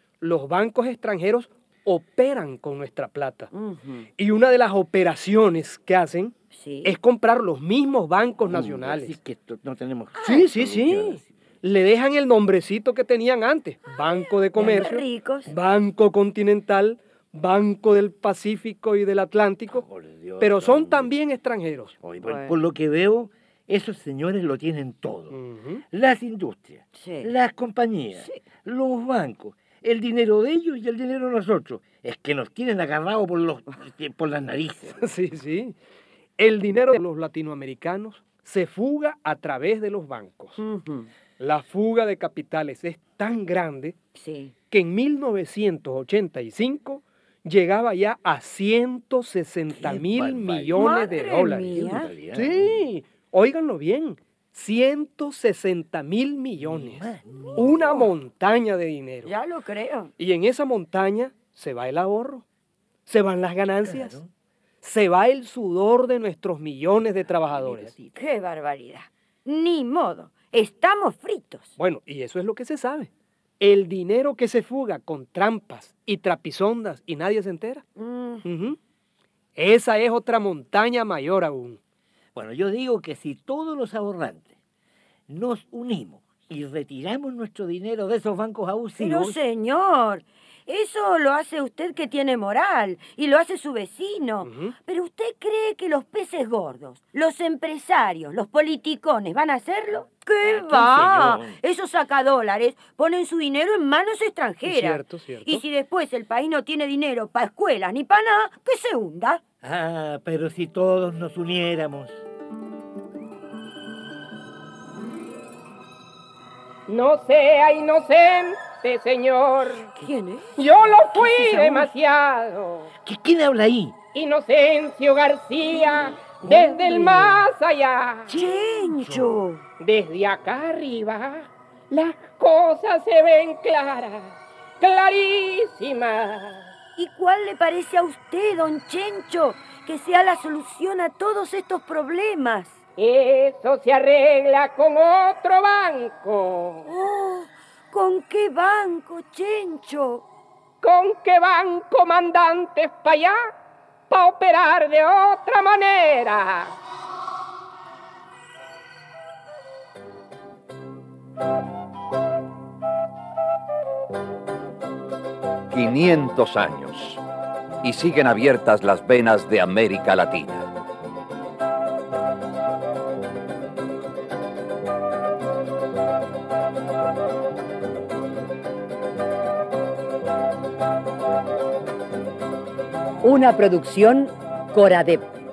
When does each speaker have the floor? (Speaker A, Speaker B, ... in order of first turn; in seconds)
Speaker A: 0.2-3.5, 4.2-6.3, 6.8-9.1, 10.2-19.9, 20.4-21.9, 25.3-25.8, 35.0-35.8, 36.4-40.6, 41.4-44.0, 44.7-57.0, 57.6-59.3, 60.2-62.5, 63.1-64.2, 64.8-67.9, 71.8-77.8, 78.5-78.8, 79.6-81.8, 94.4-94.7, 104.6-105.6
Speaker B: 3.5-4.1, 6.5-7.0, 10.2-10.5, 13.9-15.5, 22.2-22.6, 26.9-27.3, 28.2-28.5, 40.6-41.1, 44.1-44.5, 50.7-52.2, 57.6-58.1, 59.2-60.1, 68.1-71.7, 78.0-78.5, 89.0-109.4, 120.0-121.9, 126.2-127.4, 128.3-129.6, 137.0-142.8, 146.9-150.2
Speaker C: 8.4-11.3, 19.7-21.1, 22.0-25.4, 25.9-35.1, 49.7-52.8, 56.6-58.1, 63.8-64.3, 67.2-68.2, 82.3-84.5, 85.3-89.4, 100.4-101.6, 109.6-112.2, 123.0-124.0, 128.9-129.4
Speaker D: 116.9-119.9, 120.6-122.9, 124.1-128.3, 129.8-136.7, 143.0-146.9, 150.8-153.4, 154.1-156.8
Speaker E: 165.7-167.2, 167.8-170.7
Speaker F: 183.2-185.2